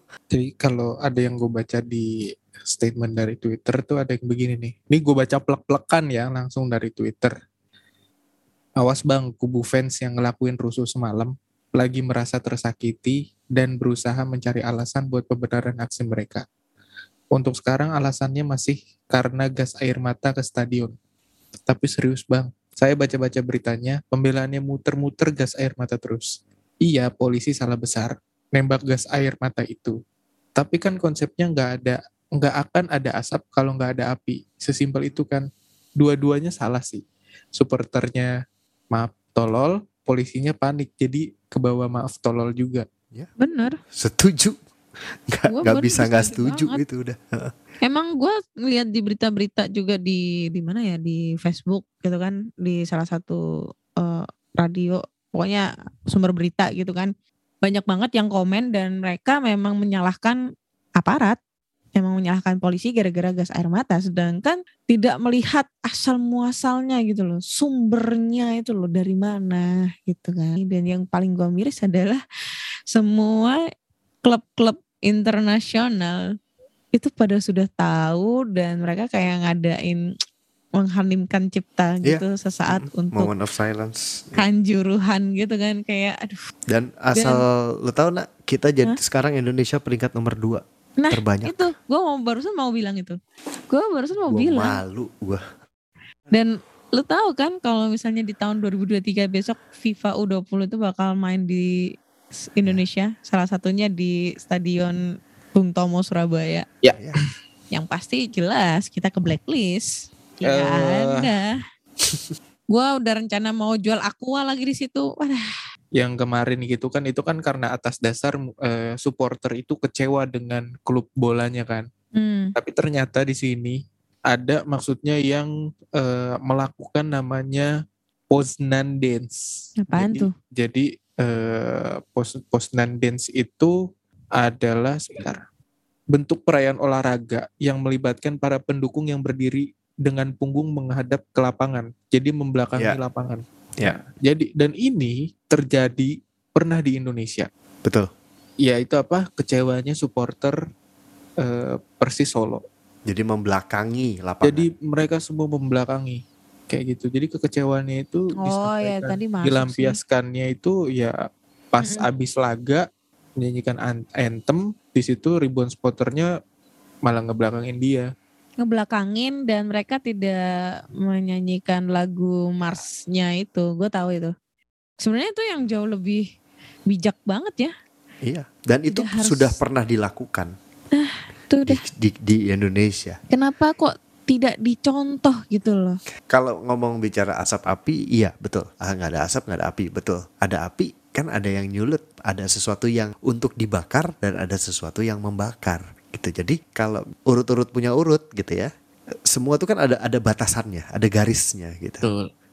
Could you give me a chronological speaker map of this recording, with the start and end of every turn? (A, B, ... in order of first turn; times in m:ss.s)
0:00.3-0:07.3 A
0:08.8-0:16.4 A
0:17.3-0:20.9 A
0:21.6-0:26.3 A
0:26.8-0:30.0 A
0:30.6-0:35.4 A
0:36.0-0:37.0 A
0:37.5-0:38.3 A
0:38.9-0:42.8 A
0:43.4-0:43.8 B
0:43.9-0:44.6 C
0:45.3-0:47.5 C
0:45.5-0:46.8 B
0:47.8-0:53.4 B
0:54.0-0:57.1 B
0:57.6-1:00.4 B
1:01.0-1:01.4 B
1:02.0-1:12.2 B
1:12.9-1:13.6 B
1:14.2-1:16.3 B
1:16.9-1:20.1 B
1:20.8-1:23.3 B
1:22.0-1:24.4 C
1:24.4-1:26.4 B
1:26.7-1:31.6 C
1:27.2-1:27.4 B
1:31.0-1:33.2 B
1:33.7-1:34.8 B
1:34.3-1:35.4 C
1:36.3-1:41.7 B
1:42.6-1:45.0 B
1:45.5-1:46.6 B
1:46.8-1:47.2 A
1:47.0-1:47.2 C
1:47.7-1:51.6 B
1:50.4-1:51.3 A
1:52.7-1:55.5 B
1:56.0-2:01.9 A
2:02.1-2:02.5 B
2:02.5-2:07.7 A
2:08.3-2:13.7 A
2:09.8-2:10.3 B
2:14.4-2:15.4 A
2:16.1-2:27.5 A
2:27.8-2:28.1 C
2:28.6-2:30.6 A
2:31.4-2:32.6 A
2:33.1-2:34.7 C
2:34.4-2:41.2 A
2:38.4-2:40.0 B
2:41.7-2:42.8 A
2:43.4-2:46.3 A
2:47.0-2:48.1 A
2:48.6-2:54.3 B
2:55.0-2:56.3 B
2:56.9-2:57.7 B
2:58.2-3:00.5 C
2:58.9-2:59.6 B
3:00.9-3:01.8 B
3:01.6-3:03.2 C
3:03.3-3:06.0 B
3:06.3-3:18.7 C
3:19.3-3:22.1 C
3:22.0-3:22.3 A